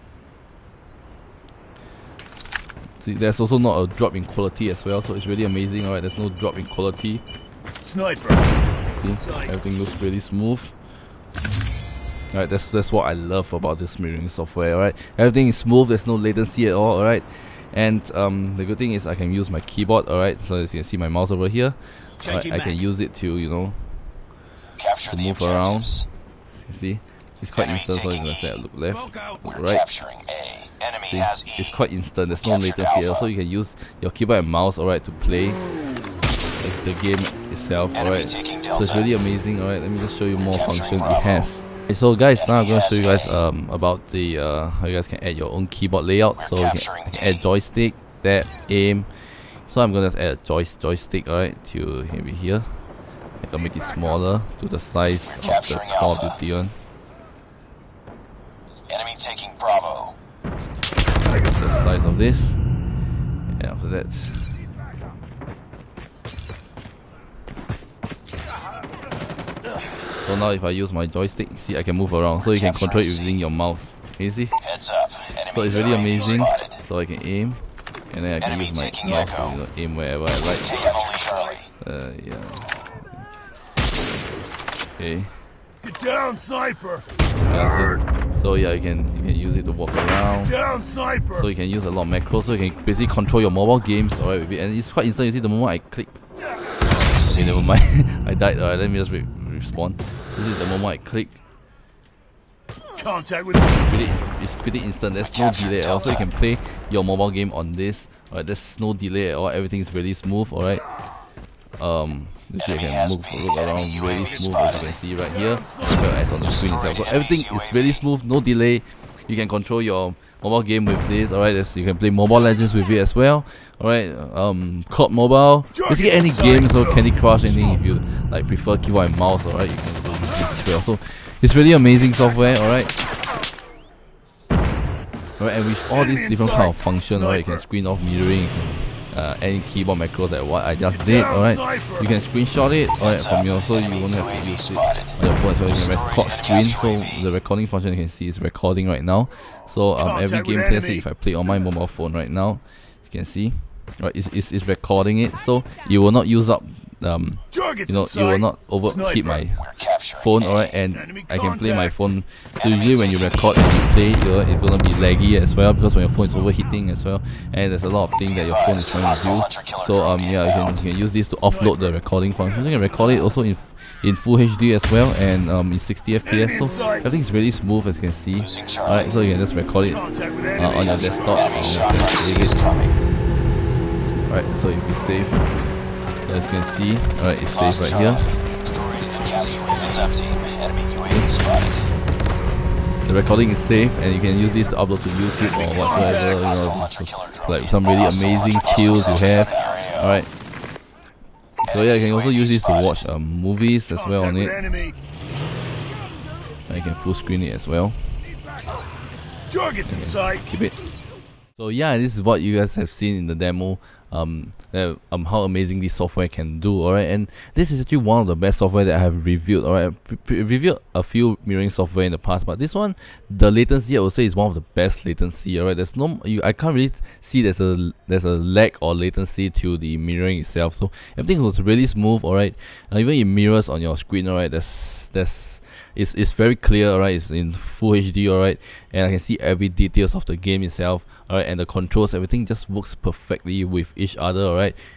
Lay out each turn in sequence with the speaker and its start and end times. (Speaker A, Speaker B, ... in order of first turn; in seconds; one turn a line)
Speaker A: 3.0-7.2
Speaker B: 7.8-8.5
Speaker A: 8.9-10.7
Speaker A: 12.3-23.9
Speaker A: 25.0-30.0
Speaker C: 29.9-30.9
Speaker A: 31.0-35.6
Speaker A: 36.6-49.1
Speaker A: 49.7-52.7
Speaker A: 53.4-56.8
Speaker C: 58.9-60.1
Speaker A: 61.3-62.6
Speaker A: 63.5-64.6
Speaker A: 70.2-74.7
Speaker C: 74.8-75.4
Speaker A: 75.4-81.1
Speaker C: 80.8-81.6
Speaker B: 81.1-81.5
Speaker A: 81.8-82.9
Speaker A: 85.0-85.3
Speaker B: 85.8-87.1
Speaker A: 87.4-90.6
Speaker B: 90.5-91.4
Speaker A: 91.3-96.1
Speaker A: 96.8-101.4
Speaker B: 102.9-103.6
Speaker A: 103.6-110.9
Speaker A: 111.8-132.9
Speaker B: 115.3-116.0
Speaker B: 125.8-127.1
Speaker A: 135.4-182.8
Speaker B: 136.0-137.6
Speaker B: 141.0-142.0
Speaker B: 150.0-151.0
Speaker B: 157.5-158.4
Speaker B: 159.0-159.4
Speaker B: 161.0-161.9
Speaker B: 171.5-171.8
Speaker B: 176.3-177.1
Speaker B: 179.9-180.9
Speaker C: 182.5-182.9
Speaker A: 184.3-185.6
Speaker A: 186.2-188.4
Speaker C: 188.8-191.7
Speaker A: 191.1-191.4
Speaker A: 193.0-200.3
Speaker B: 195.7-196.0
Speaker A: 201.6-204.7
Speaker B: 203.9-205.0
Speaker A: 206.7-208.0
Speaker B: 209.5-210.4
Speaker A: 209.8-210.8
Speaker A: 211.6-244.8